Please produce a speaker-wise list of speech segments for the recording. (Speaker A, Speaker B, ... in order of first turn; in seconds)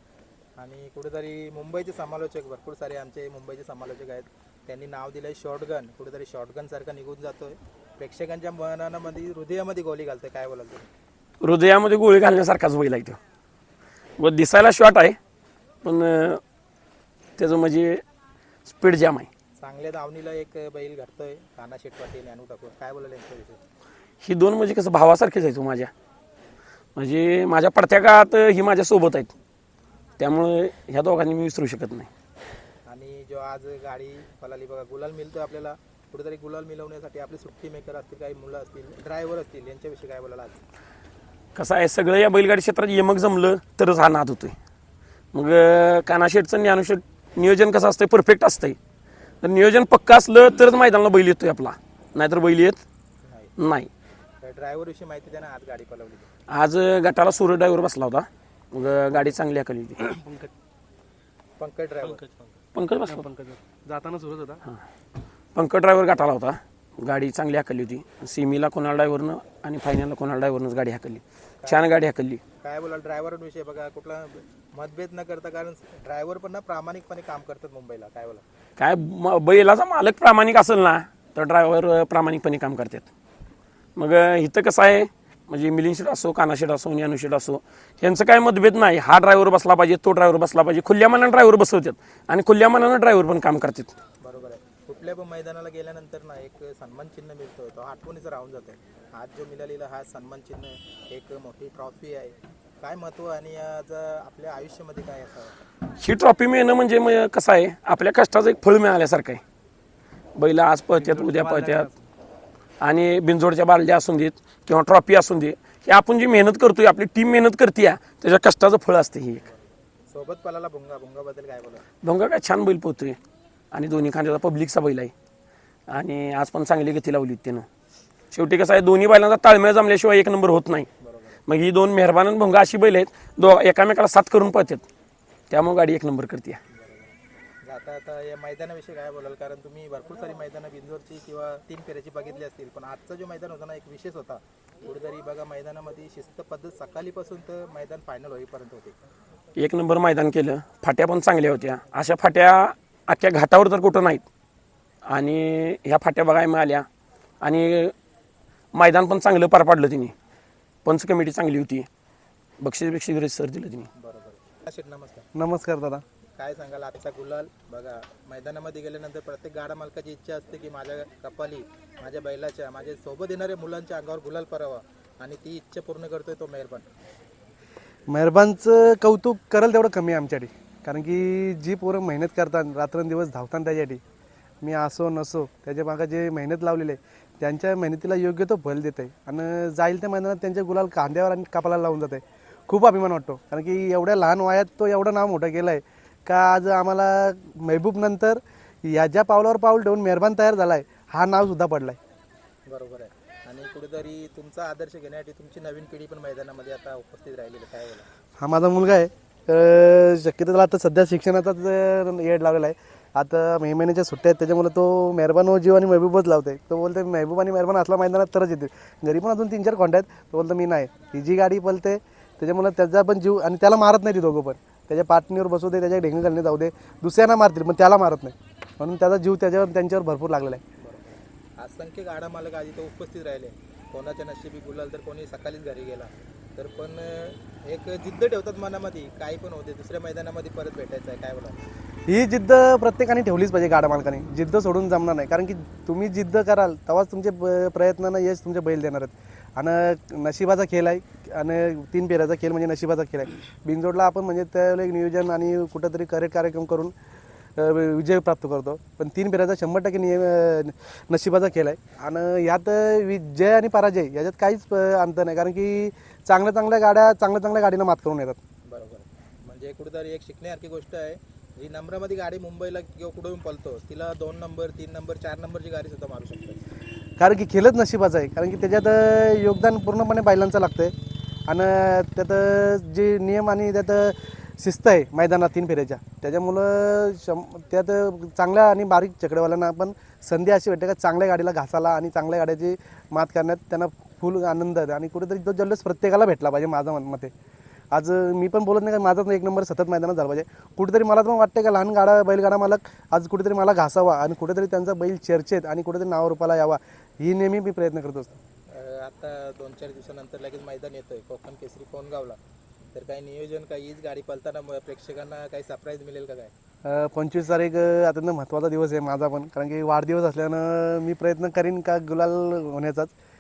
Speaker A: 0.6-10.9, 19.6-23.6, 32.9-40.6, 53.2-53.5, 54.4-56.3, 61.6-62.2, 71.6-72.0, 72.6-78.4, 94.2-105.6, 119.5-121.8, 131.0-131.4, 136.7-148.9, 163.9-165.2, 166.4-176.9, 202.7-208.1, 230.8-241.6, 268.7-276.6, 308.7-312.4, 312.9-316.5
Speaker B: 11.4-13.2, 14.2-15.2, 15.8-16.4, 17.4-18.0, 18.7-19.3, 24.2-25.9, 27.0-29.3, 30.2-32.1, 41.5-44.5, 45.3-48.8, 49.4-52.8, 53.6-53.9, 56.5-60.0, 62.8-63.2, 65.5-72.4, 78.8-83.1, 84.0-93.9, 106.0-109.4, 110.4-111.9, 112.8-119.4, 122.0-123.2, 123.7-125.1, 125.9-127.7, 128.3-130.9, 131.4-134.8, 135.5-136.6, 149.6-154.2, 155.1-156.9, 157.4-157.9, 158.7-160.1, 160.8-161.9, 162.6-163.9
Speaker C: 60.1-60.5, 62.1-62.5, 63.0-64.6, 110.9-112.1, 165.3-166.0, 178.1-184.0, 184.6-202.0, 208.4-230.6, 242.1-256.9, 257.6-268.4, 277.2-280.9, 281.5-297.3, 297.9-308.4, 316.9-323.1